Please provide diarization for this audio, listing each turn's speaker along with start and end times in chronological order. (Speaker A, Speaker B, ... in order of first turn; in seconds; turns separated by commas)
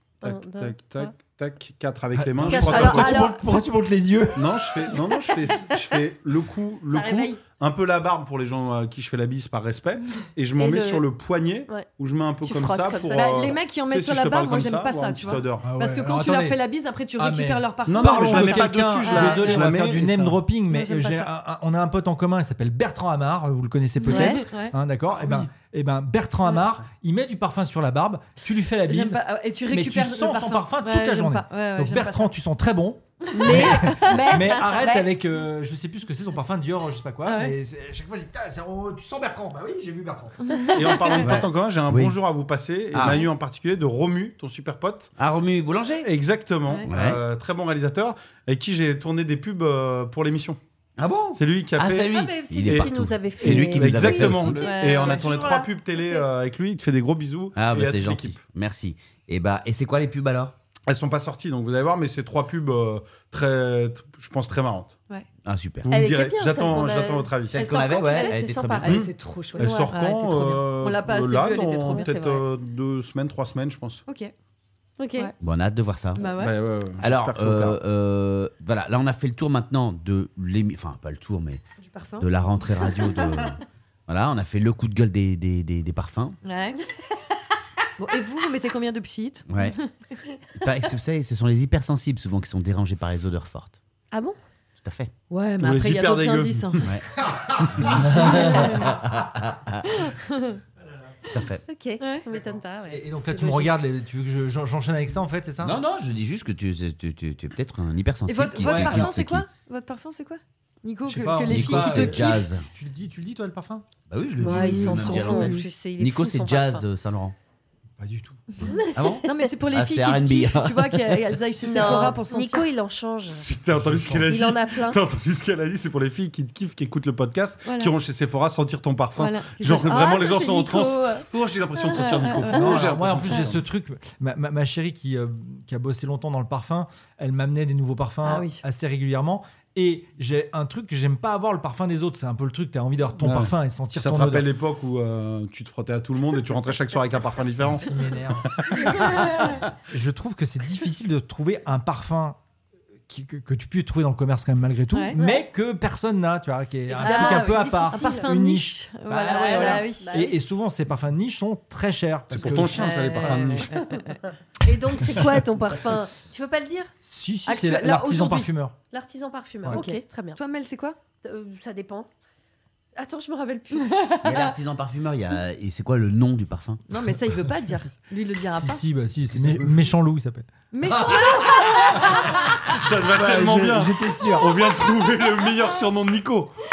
Speaker A: 0.2-1.1, Speaker B: 0.2-3.2, Speaker C: 2.1-4.8, Speaker A: 2.5-3.3, Speaker D: 2.6-3.4, Speaker B: 4.3-15.7, Speaker D: 6.9-7.4, Speaker A: 10.6-11.0, Speaker A: 12.4-13.6, Speaker D: 13.1-19.7, Speaker C: 15.6-16.6, Speaker C: 17.2-40.4, Speaker B: 17.9-20.4, Speaker D: 20.7-21.3, Speaker A: 24.0-24.4, Speaker D: 24.1-24.7, Speaker D: 28.8-32.3, Speaker D: 33.2-35.1, Speaker A: 33.3-34.5, Speaker D: 37.2-37.5, Speaker D: 40.4-41.4, Speaker B: 40.7-45.1, Speaker E: 41.2-42.1, Speaker E: 42.9-43.3, Speaker E: 45.2-46.1, Speaker B: 46.0-50.6, Speaker E: 46.9-47.2, Speaker E: 51.0-54.7, Speaker B: 51.3-58.4, Speaker A: 52.1-56.3, Speaker D: 54.6-55.5, Speaker E: 57.5-60.5, Speaker B: 60.9-64.9, Speaker E: 65.4-65.9, Speaker B: 65.8-67.7, Speaker A: 65.9-69.9, Speaker E: 67.5-69.0, Speaker D: 67.5-72.1, Speaker B: 68.8-74.0, Speaker A: 71.9-72.5, Speaker D: 74.1-74.3, Speaker A: 75.0-75.3, Speaker E: 75.4-76.3, Speaker D: 76.2-76.6, Speaker B: 76.2-77.8, Speaker E: 77.0-81.6, Speaker D: 81.8-83.5, Speaker E: 82.2-86.3, Speaker D: 86.4-86.8, Speaker D: 88.0-89.9, Speaker E: 89.5-89.8, Speaker E: 90.6-93.8, Speaker A: 94.1-94.4, Speaker E: 94.8-95.1, Speaker D: 95.3-96.8, Speaker B: 95.6-96.9, Speaker C: 97.2-98.3, Speaker E: 97.6-99.9, Speaker D: 97.9-99.0, Speaker D: 99.9-100.6, Speaker C: 100.8-101.1, Speaker E: 101.3-101.6, Speaker A: 101.7-103.8, Speaker D: 102.0-102.3, Speaker C: 102.3-105.8, Speaker E: 105.6-109.5, Speaker D: 108.3-112.5, Speaker C: 108.6-109.1, Speaker C: 111.0-113.8, Speaker E: 111.5-112.6, Speaker E: 114.1-117.3, Speaker A: 114.4-116.8, Speaker D: 114.6-115.6, Speaker C: 118.0-118.6, Speaker D: 118.6-122.7, Speaker A: 118.7-119.0, Speaker E: 118.9-121.4, Speaker A: 121.5-123.4, Speaker B: 123.3-133.6, Speaker C: 123.7-124.3, Speaker A: 124.2-125.0, Speaker D: 127.6-127.9, Speaker D: 129.2-133.5, Speaker C: 132.5-144.5, Speaker D: 138.2-138.6, Speaker B: 143.2-147.9, Speaker C: 147.7-148.5, Speaker B: 148.5-149.6, Speaker D: 148.9-149.6, Speaker C: 149.9-152.4, Speaker C: 153.1-163.3, Speaker D: 154.9-155.2, Speaker A: 156.9-158.3, Speaker D: 157.0-160.3, Speaker A: 159.3-160.4, Speaker B: 162.3-163.9, Speaker D: 162.7-164.2, Speaker A: 163.7-166.9, Speaker C: 167.1-168.7, Speaker D: 167.4-168.5, Speaker A: 168.9-170.4, Speaker D: 169.7-171.0, Speaker A: 171.2-172.1, Speaker A: 172.9-174.0, Speaker D: 173.7-174.6, Speaker E: 174.2-176.8, Speaker D: 176.9-178.8, Speaker C: 178.5-180.5, Speaker E: 179.3-179.9, Speaker D: 180.7-182.1, Speaker A: 181.2-182.6, Speaker C: 182.0-182.4, Speaker B: 182.6-186.5, Speaker C: 182.9-184.6